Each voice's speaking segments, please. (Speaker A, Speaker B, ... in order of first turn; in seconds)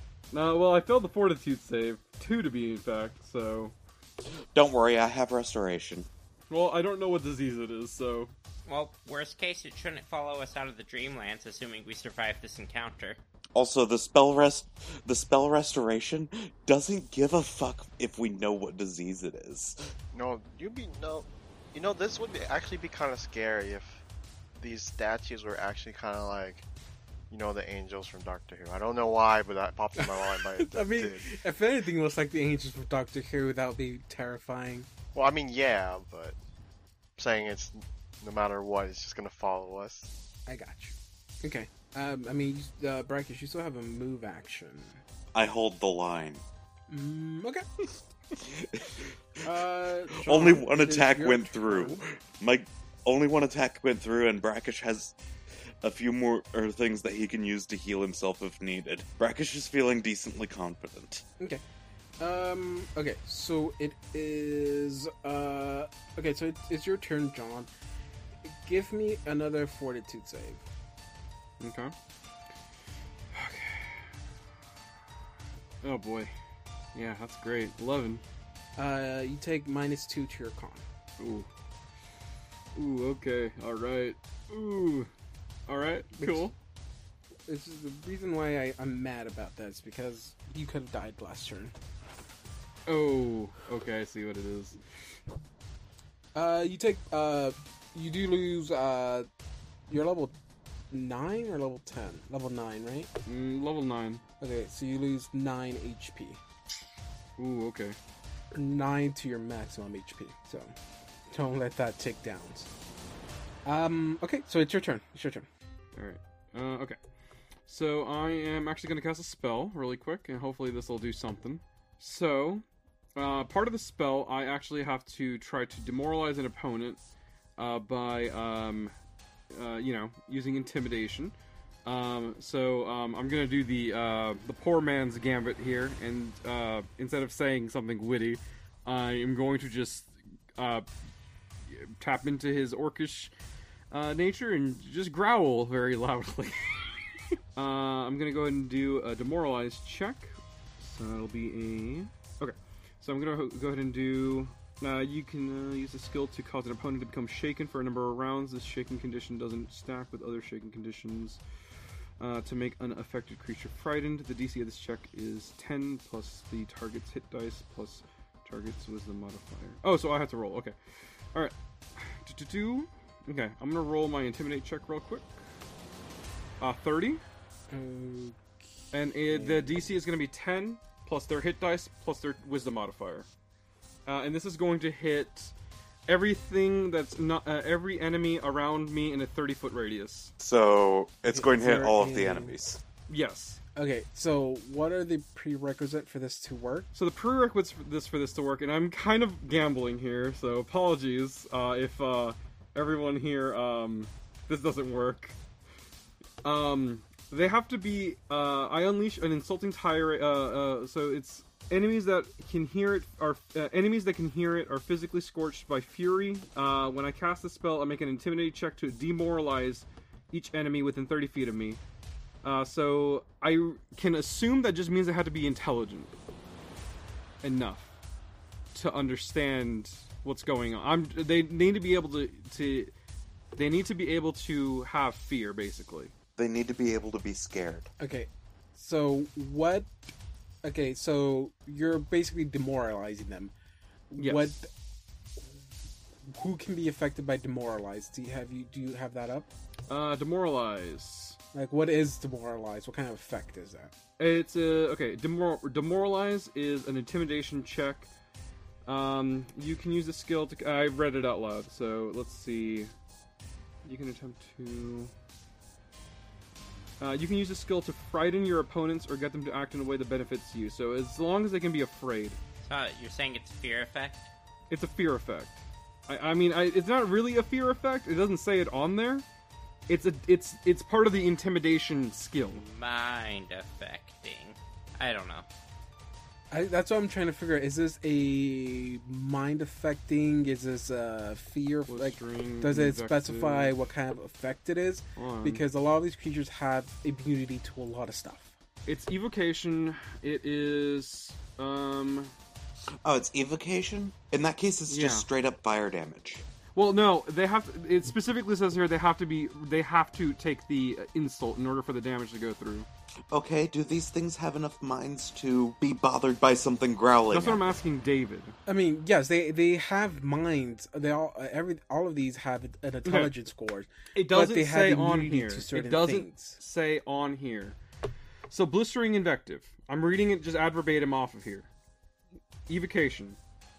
Speaker A: 0.3-3.7, 6.5-8.3, 71.6-71.9, 73.3-74.1, 75.8-76.3, 76.9-78.2, 81.2-81.5, 82.7-85.1, 85.7-86.5, 92.9-94.8, 103.2-104.2, 107.4-108.0, 115.9-117.0, 117.7-122.6, 123.2-127.0, 127.6-128.9, 129.5-140.8, 141.7-143.3, 143.9-146.8, 147.5-161.4, 162.2-170.8, 171.3-175.4, 176.6-177.2, 178.9-183.3, 184.1-185.5, 186.1-190.3, 193.1-193.6, 196.9-205.4, 206.4-221.8, 222.4-226.1, 227.4-227.9, 228.7-232.9, 233.5-236.1, 244.2-244.5, 249.9-251.4, 254.2-258.1, 258.9-262.9, 263.8-265.1, 267.0-272.4, 274.7-279.2, 279.9-282.6, 291.9-293.7, 295.2-295.6, 298.9-302.3, 304.9-305.3, 306.7-312.9, 317.3-318.6, 323.0-323.3, 324.1-327.8, 328.5-331.7, 332.7-333.4
Speaker B: 4.5-6.1, 13.5-19.8, 45.3-46.4, 48.4-49.1, 50.1-55.1, 55.8-61.2, 190.4-192.8, 236.4-237.9, 303.0-306.4, 313.3-317.6
Speaker C: 8.7-13.2, 272.6-274.3, 282.5-285.4
Speaker D: 20.1-24.0, 24.6-26.6, 27.3-31.3, 35.1-36.4, 37.2-40.1
Speaker E: 30.0-34.9, 40.5-45.0, 46.9-47.7, 49.4-52.0, 62.2-67.7, 68.4-70.6, 78.8-80.8, 86.2-86.5, 87.5-91.7, 96.3-99.3, 99.9-100.3, 100.9-103.1, 104.4-106.4, 108.5-110.7, 111.3-112.7, 113.6-115.5, 177.7-178.4, 179.3-179.9, 191.3-192.5, 193.8-196.9, 238.0-239.9, 240.6-243.5, 244.1-244.7, 246.2-249.5, 251.5-253.9, 286.5-298.5, 318.7-326.6